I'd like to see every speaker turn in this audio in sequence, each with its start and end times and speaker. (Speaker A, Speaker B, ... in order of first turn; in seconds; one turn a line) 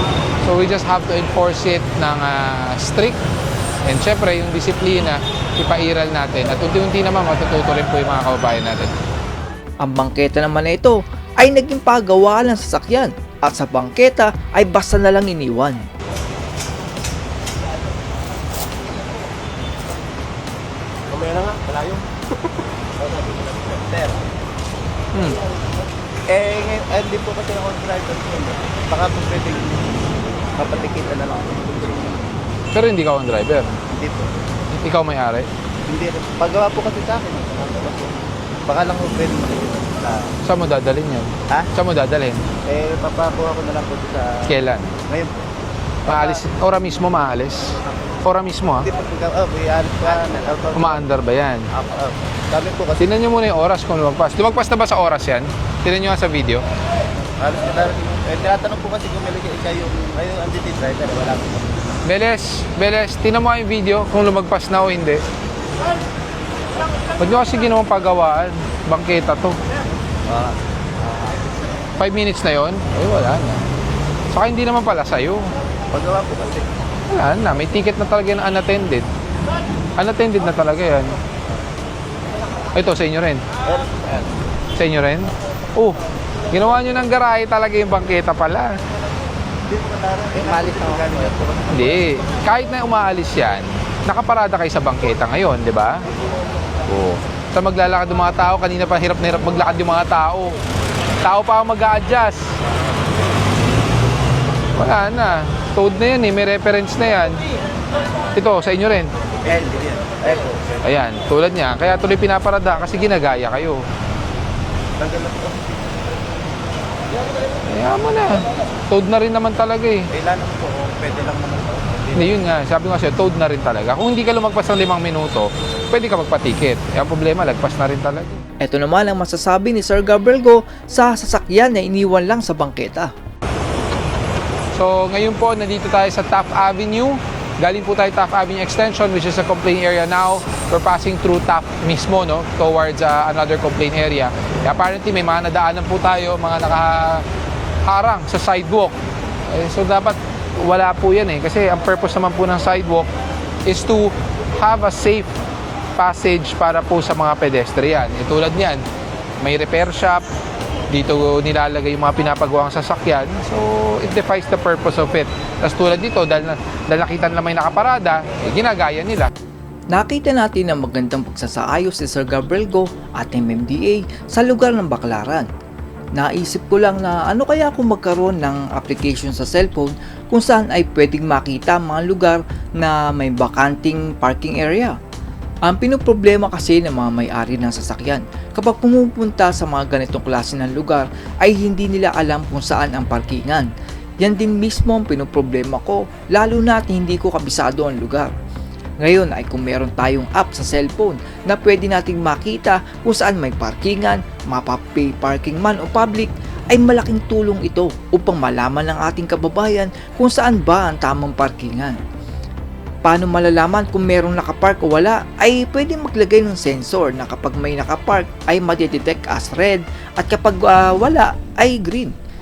Speaker A: 0.4-3.2
Speaker A: 3.9-8.9
Speaker B: 9.8-15.8
Speaker C: 21.1-22.0
Speaker C: 23.0-24.2
Speaker A: 25.1-25.4
Speaker C: 26.3-29.9
Speaker C: 30.6-32.2
Speaker A: 32.7-33.8
Speaker C: 33.9-34.3
Speaker A: 34.7-35.5
Speaker C: 35.9-38.1
Speaker C: 38.7-40.3
Speaker A: 40.5-42.4
Speaker C: 42.7-44.4
Speaker A: 44.5-44.9
Speaker C: 45.1-45.5
Speaker A: 46.1-48.9
Speaker C: 46.1-46.4
Speaker C: 48.8-51.0
Speaker A: 50.7-51.7
Speaker C: 51.7-53.1
Speaker A: 53.0-56.6
Speaker C: 57.4-61.7
Speaker A: 62.0-65.2
Speaker A: 67.2-69.6
Speaker C: 70.3-70.6
Speaker C: 71.1-71.3
Speaker A: 72.0-73.7
Speaker A: 74.3-75.5
Speaker C: 75.9-76.7
Speaker A: 77.1-79.1
Speaker A: 80.0-81.2
Speaker A: 82.8-83.4
Speaker C: 83.7-84.2
Speaker A: 84.8-86.0
Speaker A: 86.5-88.7
Speaker C: 89.7-92.0
Speaker A: 91.7-96.0
Speaker A: 96.9-100.5
Speaker A: 101.2-102.5
Speaker A: 104.8-107.4
Speaker A: 108.3-109.1
Speaker C: 109.4-110.8
Speaker A: 110.8-113.8
Speaker C: 115.0-115.8
Speaker A: 117.7-120.1
Speaker C: 120.1-122.2
Speaker A: 122.1-128.4
Speaker B: 128.6-133.1
Speaker A: 134.7-147.2
Speaker A: 147.8-148.9
Speaker A: 149.5-153.1
Speaker A: 153.7-155.3
Speaker A: 156.0-158.8
Speaker A: 159.4-160.2
Speaker A: 160.9-169.3
Speaker B: 169.9-175.5
Speaker B: 176.2-184.9
Speaker B: 185.7-193.7
Speaker B: 194.2-198.3
Speaker B: 199.0-212.0
Speaker B: 213.1-222.1